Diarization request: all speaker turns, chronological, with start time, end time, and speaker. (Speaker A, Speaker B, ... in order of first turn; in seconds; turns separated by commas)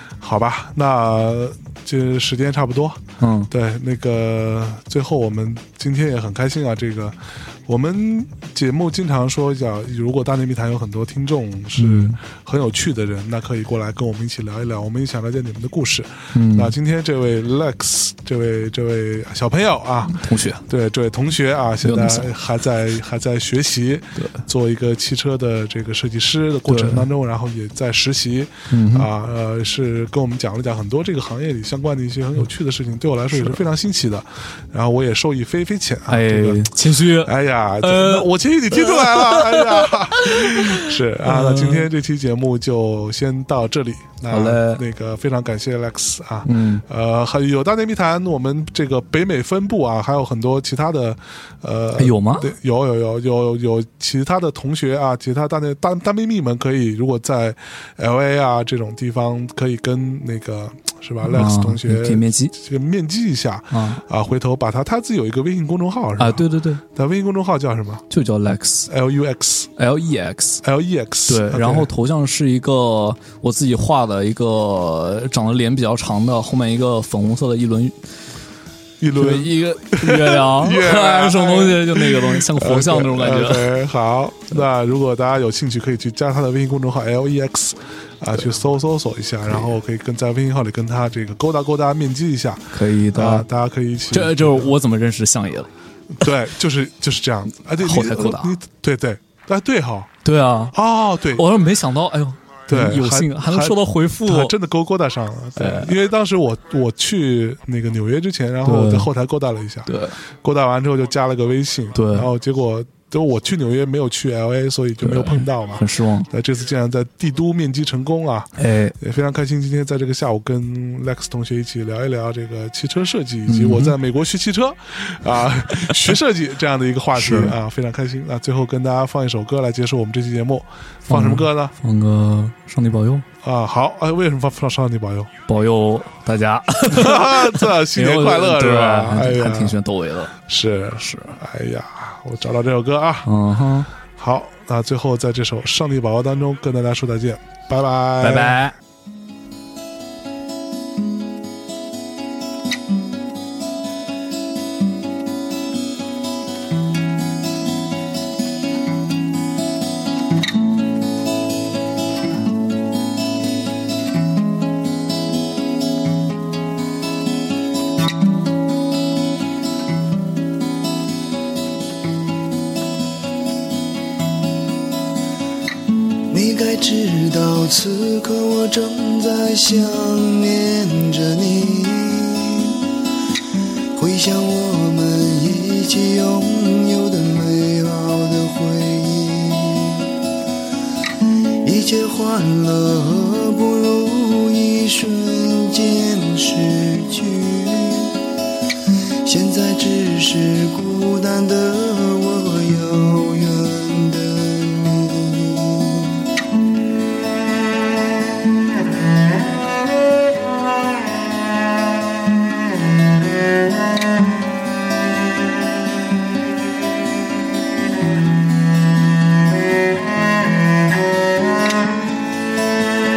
Speaker A: 0.2-68.0, Speaker B: 3.2-3.5, Speaker B: 11.8-12.2, Speaker B: 16.3-16.7, Speaker B: 20.1-20.6, Speaker B: 21.8-22.3, Speaker B: 26.7-27.1, Speaker B: 28.7-29.1, Speaker B: 36.1-41.9, Speaker B: 44.3-44.8, Speaker B: 46.5-46.8, Speaker B: 52.0-52.5, Speaker B: 61.2-62.5, Speaker B: 63.7-64.0, Speaker B: 66.2-66.8, Speaker B: 68.1-68.9, Speaker A: 68.9-69.7, Speaker B: 69.8-70.6, Speaker A: 70.6-71.9, Speaker B: 71.3-78.0, Speaker A: 79.0-94.7, Speaker B: 79.1-83.8, Speaker B: 92.7-93.5, Speaker B: 94.1-95.7, Speaker A: 96.2-100.1, Speaker B: 97.8-98.6, Speaker B: 100.2-100.8, Speaker A: 100.7-101.4, Speaker B: 101.3-104.6, Speaker A: 102.7-131.7, Speaker B: 105.6-105.9, Speaker B: 108.7-109.1, Speaker B: 109.9-110.2, Speaker B: 111.9-112.3, Speaker B: 115.0-116.3, Speaker B: 118.6-118.9, Speaker B: 123.5-124.0, Speaker B: 127.2-127.6, Speaker B: 131.1-133.3, Speaker A: 133.4-135.3, Speaker B: 135.5-140.3, Speaker A: 136.9-139.8, Speaker A: 140.4-143.3, Speaker B: 141.0-141.4, Speaker B: 143.2-143.9, Speaker A: 144.2-148.6, Speaker B: 148.2-148.8, Speaker C: 176.3-182.8, Speaker C: 183.9-190.1, Speaker C: 191.6-198.2, Speaker C: 199.2-206.2